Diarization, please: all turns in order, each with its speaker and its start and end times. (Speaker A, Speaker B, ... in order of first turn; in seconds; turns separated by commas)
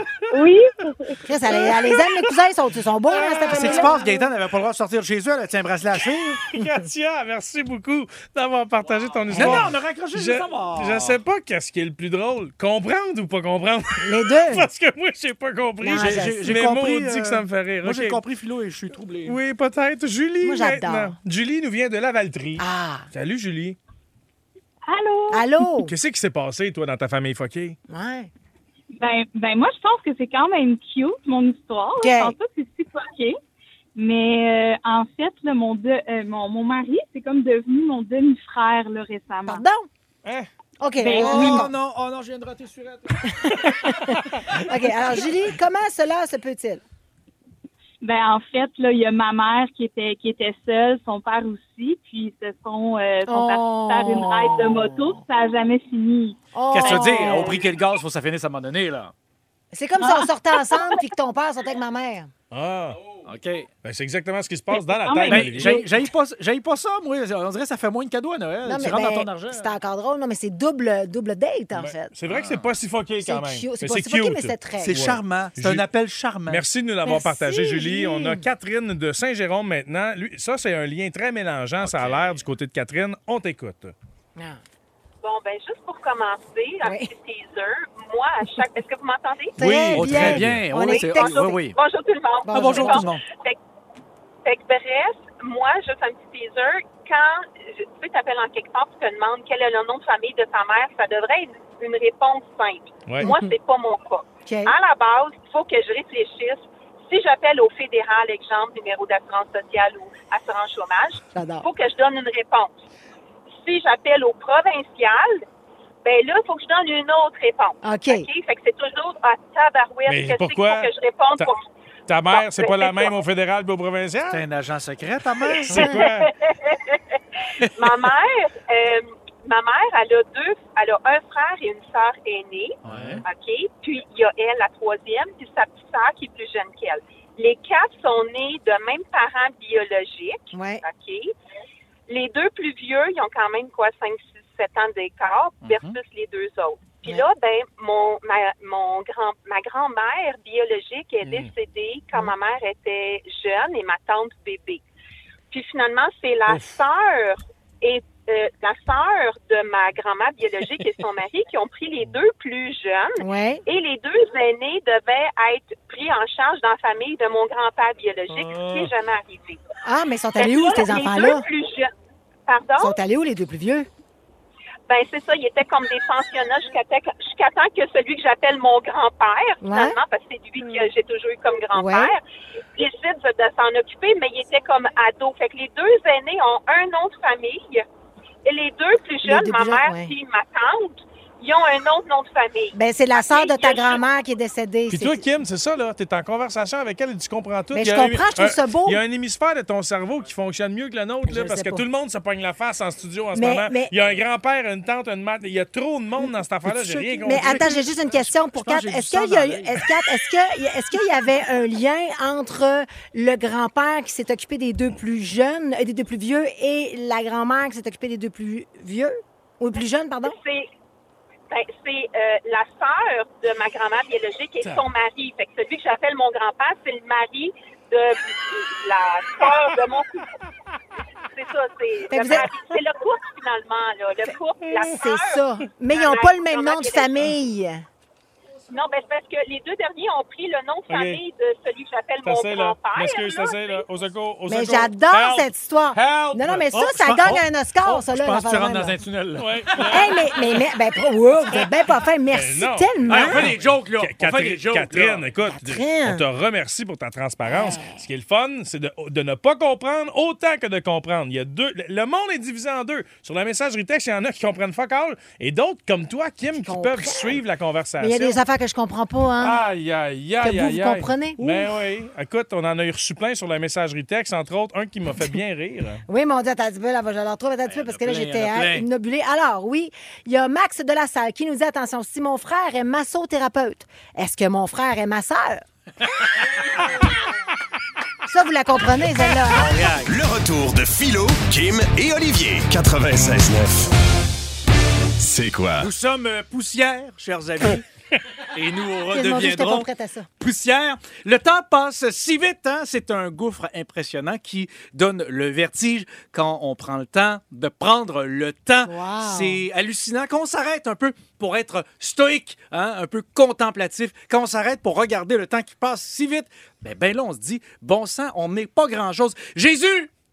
Speaker A: 0.3-1.8, Speaker B: 1.3-4.0, Speaker A: 3.4-4.2, Speaker C: 3.5-6.5, Speaker D: 6.5-18.2, Speaker C: 9.3-11.2, Speaker B: 14.0-14.7, Speaker B: 15.8-16.5, Speaker C: 16.0-19.4, Speaker D: 19.2-23.8, Speaker B: 20.4-21.1, Speaker B: 22.6-23.1, Speaker E: 24.9-25.5, Speaker B: 25.3-25.9, Speaker D: 25.8-27.8, Speaker B: 27.9-28.3, Speaker E: 29.0-33.4, Speaker B: 32.0-32.4, Speaker E: 34.0-39.6, Speaker B: 39.5-39.9, Speaker B: 40.8-41.7, Speaker E: 41.0-41.7, Speaker C: 41.1-43.3, Speaker B: 43.2-46.8, Speaker E: 48.0-57.6, Speaker B: 53.3-55.2, Speaker B: 56.5-57.6, Speaker C: 56.7-59.1, Speaker B: 59.7-62.3, Speaker D: 62.5-63.2, Speaker C: 63.2-63.7, Speaker D: 63.8-65.8, Speaker E: 64.9-65.9, Speaker C: 65.3-69.7, Speaker B: 68.7-72.1, Speaker D: 71.8-75.8, Speaker C: 72.3-72.7, Speaker B: 73.2-75.0, Speaker C: 74.8-76.6, Speaker D: 76.5-83.9, Speaker B: 77.0-78.5, Speaker C: 81.8-82.1, Speaker F: 85.2-89.6, Speaker B: 86.8-87.1, Speaker B: 89.6-91.6, Speaker C: 89.6-91.8, Speaker D: 89.9-90.6, Speaker F: 90.8-93.6, Speaker B: 92.5-93.1, Speaker C: 92.5-93.2, Speaker F: 94.5-112.8, Speaker B: 103.2-103.5, Speaker B: 104.5-104.7, Speaker B: 111.3-111.7, Speaker F: 113.6-115.4, Speaker F: 116.0-121.6, Speaker B: 117.8-118.3, Speaker D: 120.1-121.5, Speaker D: 122.1-124.4, Speaker F: 122.3-123.1, Speaker C: 124.3-126.0, Speaker B: 125.7-126.1, Speaker D: 125.7-126.3, Speaker F: 125.9-127.0, Speaker F: 127.7-141.3, Speaker C: 132.8-133.2, Speaker D: 132.9-133.2, Speaker B: 140.5-140.8, Speaker F: 142.1-154.8, Speaker C: 145.6-146.0, Speaker D: 151.2-151.5, Speaker F: 155.5-169.6, Speaker D: 156.5-156.8, Speaker B: 163.2-163.6, Speaker D: 168.3-168.9, Speaker B: 169.8-171.5, Speaker F: 170.4-171.9, Speaker F: 172.5-172.9, Speaker B: 172.8-173.9, Speaker F: 174.9-182.2, Speaker B: 179.6-180.0, Speaker B: 181.7-182.1, Speaker F: 182.8-187.8, Speaker F: 188.4-194.0, Speaker B: 189.2-190.1, Speaker B: 192.7-195.2, Speaker D: 194.9-207.6, Speaker B: 197.7-199.0, Speaker B: 201.3-201.8, Speaker B: 203.3-203.9, Speaker C: 206.7-209.8, Speaker B: 207.2-220.4, Speaker F: 220.2-220.7, Speaker F: 221.5-230.3, Speaker F: 231.3-235.4, Speaker B: 232.1-232.5, Speaker B: 234.7-237.8, Speaker F: 235.9-237.3, Speaker F: 238.7-243.8, Speaker D: 240.9-241.2, Speaker D: 242.2-246.6, Speaker B: 244.5-249.0, Speaker C: 246.1-250.4, Speaker D: 249.4-250.1, Speaker B: 249.9-253.5, Speaker D: 252.3-268.4, Speaker C: 253.1-255.3, Speaker B: 255.5-256.2, Speaker B: 257.5-258.0, Speaker B: 266.6-267.4, Speaker B: 268.0-269.6, Speaker D: 269.4-276.0, Speaker B: 270.4-271.7, Speaker B: 276.1-285.6, Speaker C: 277.7-278.9, Speaker B: 288.3-289.8, Speaker C: 289.5-290.2, Speaker G: 290.1-293.9, Speaker G: 295.2-295.9, Speaker C: 295.8-297.8, Speaker C: 298.5-299.9, Speaker B: 299.1-300.3, Speaker C: 300.4-320.1, Speaker B: 308.9-309.6